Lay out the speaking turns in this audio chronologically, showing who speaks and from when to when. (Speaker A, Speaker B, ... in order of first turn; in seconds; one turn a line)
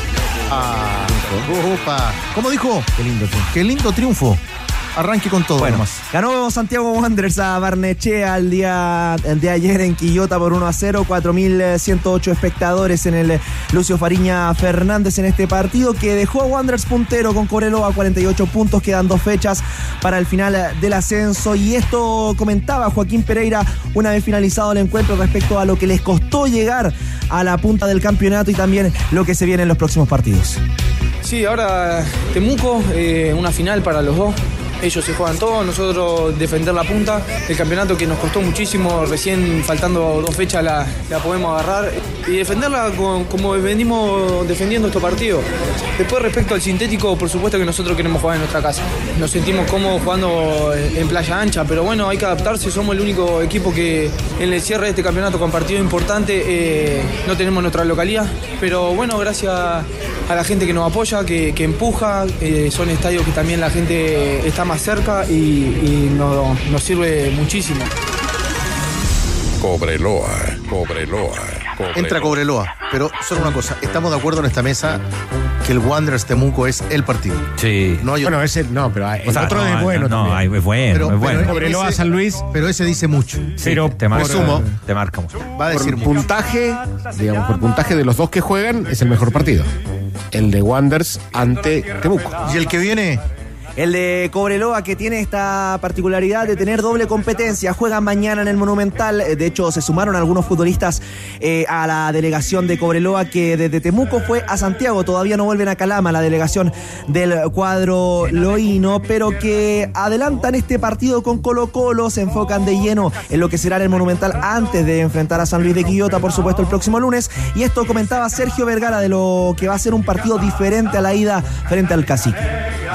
Speaker A: 0.5-2.9
Speaker B: 3.0-3.5
Speaker A: 3.5-4.4
Speaker A: 5.0-6.0
Speaker B: 5.6-30.6
Speaker C: 31.2-45.5
Speaker C: 46.0-67.9
Speaker D: 69.6-72.0
Speaker A: 71.9-75.0
Speaker A: 75.7-77.5
Speaker E: 77.6-78.0
Speaker A: 78.0-78.4
Speaker F: 78.2-80.5
Speaker E: 79.3-81.5
Speaker A: 80.9-83.6
Speaker F: 81.4-82.5
Speaker E: 83.6-85.4
Speaker F: 83.6-84.7
Speaker A: 84.1-84.6
Speaker A: 85.6-86.2
Speaker F: 85.7-89.7
Speaker F: 90.3-92.5
Speaker A: 92.4-93.2
Speaker B: 93.8-122.4